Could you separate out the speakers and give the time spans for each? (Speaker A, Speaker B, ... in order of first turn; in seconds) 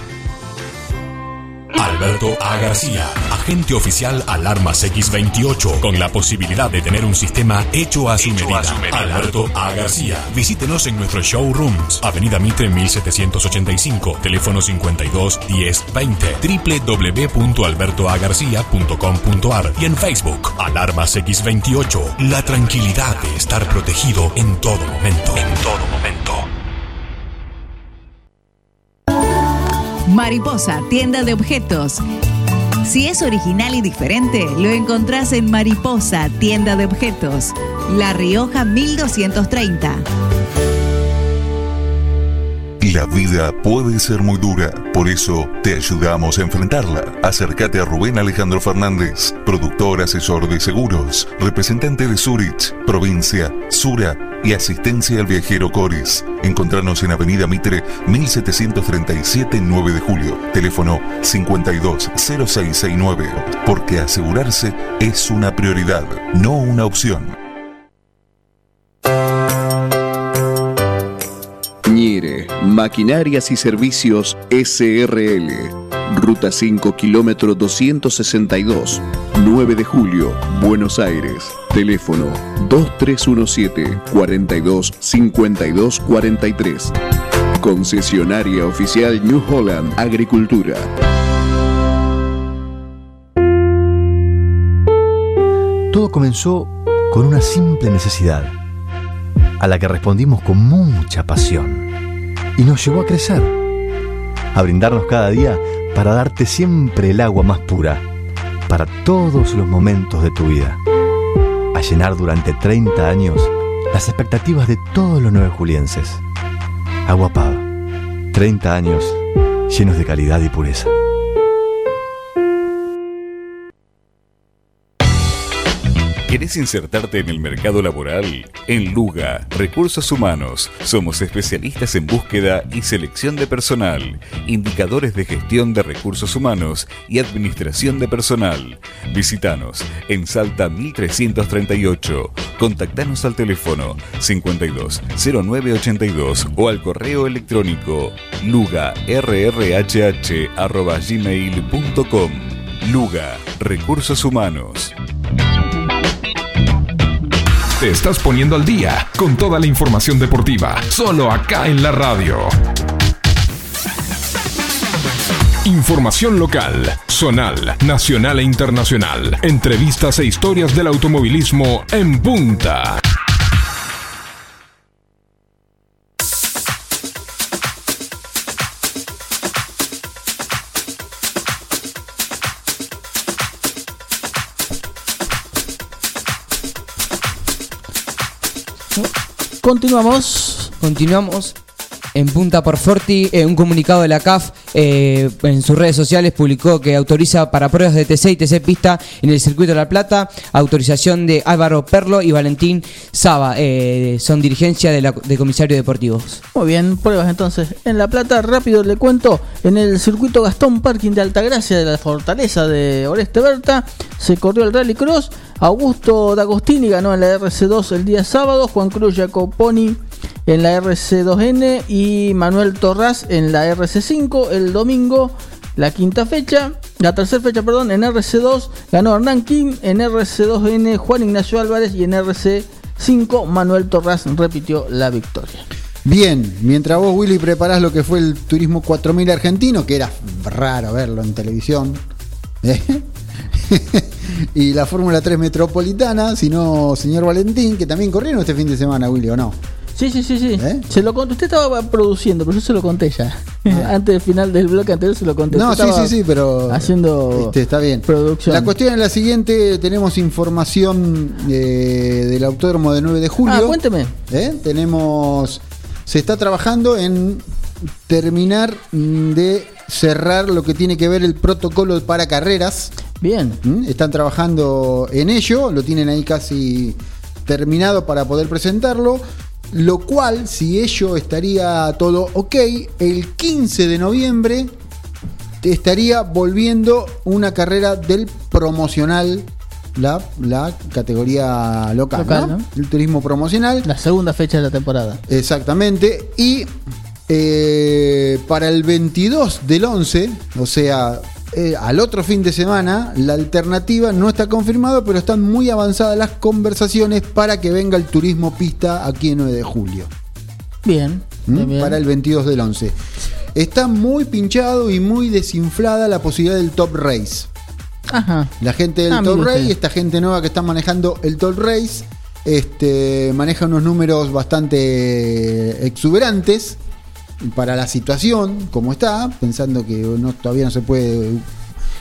Speaker A: 1.7-26.4
Speaker B: 30.1-32.0, 32.8-40.0
Speaker C: 42.8-67.3
Speaker D: 71.8-86.9, 87.6-90.9
Speaker E: 95.9-98.5, 99.6-101.9, 102.5-103.5, 104.5-108.0, 108.7-110.8, 111.7-116.2, 117.0-117.7, 118.3-120.9
Speaker F: 126.3-154.9
Speaker G: 157.8-162.6, 165.6-173.0
Speaker H: 189.6-190.7, 206.5-235.7, 249.9-256.1, 256.7-257.5, 258.1-258.7, 263.4-264.1, 273.2-273.6, 292.1-292.6, 293.8-295.2, 310.8-312.0, 318.1-318.5, 319.1-319.7
Speaker I: 190.8-191.5, 192.1-206.4
Speaker J: 236.0-242.0, 242.6-249.6, 250.6-250.8, 253.7-253.9, 255.5-263.8, 264.3-267.4, 268.1-272.9, 273.6-284.7, 285.6-293.9, 295.3-296.7, 297.3-310.1, 311.5-312.9, 313.5-317.5, 318.6-326.8, 327.4-331.4